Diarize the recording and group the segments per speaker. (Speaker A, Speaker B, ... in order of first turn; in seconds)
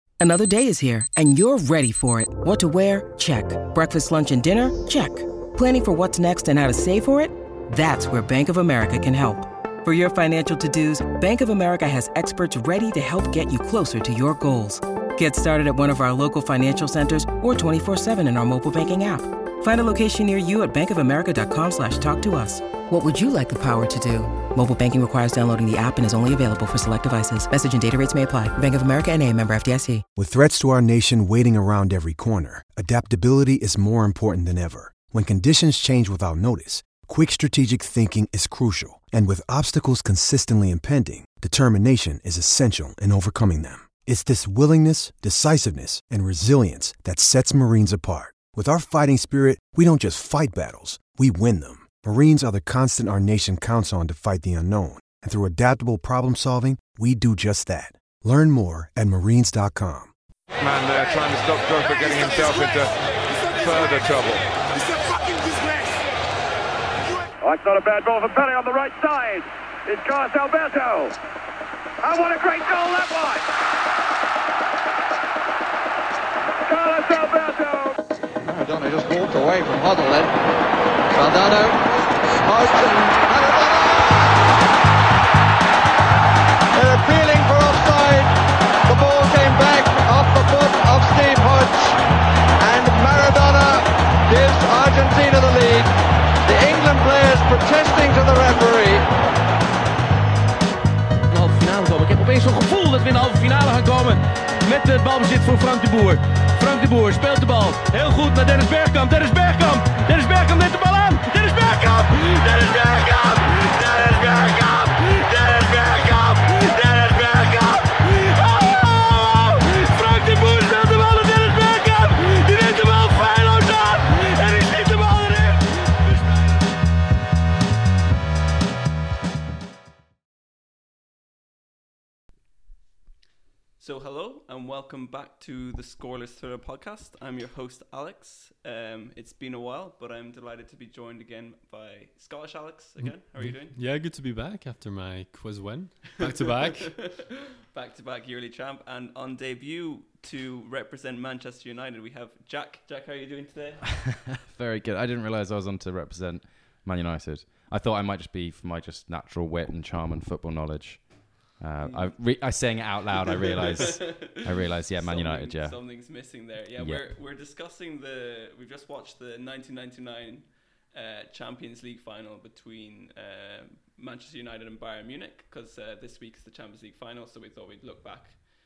Speaker A: 0.2-30.0
Speaker B: 30.1-60.1
Speaker C: 60.6-62.9, 63.6-64.4
Speaker D: 61.7-62.1, 63.6-64.1, 78.4-80.5, 81.1-84.5, 86.7-92.0, 92.6-95.9, 96.4-99.1
Speaker E: 67.4-71.2, 72.0-73.5, 76.7-77.9
Speaker F: 101.3-126.6
Speaker G: 133.8-143.8, 146.2-153.9, 161.8-162.2, 163.4-178.4
Speaker H: 143.0-146.9
Speaker I: 154.3-161.1, 161.6-165.8, 166.8-167.1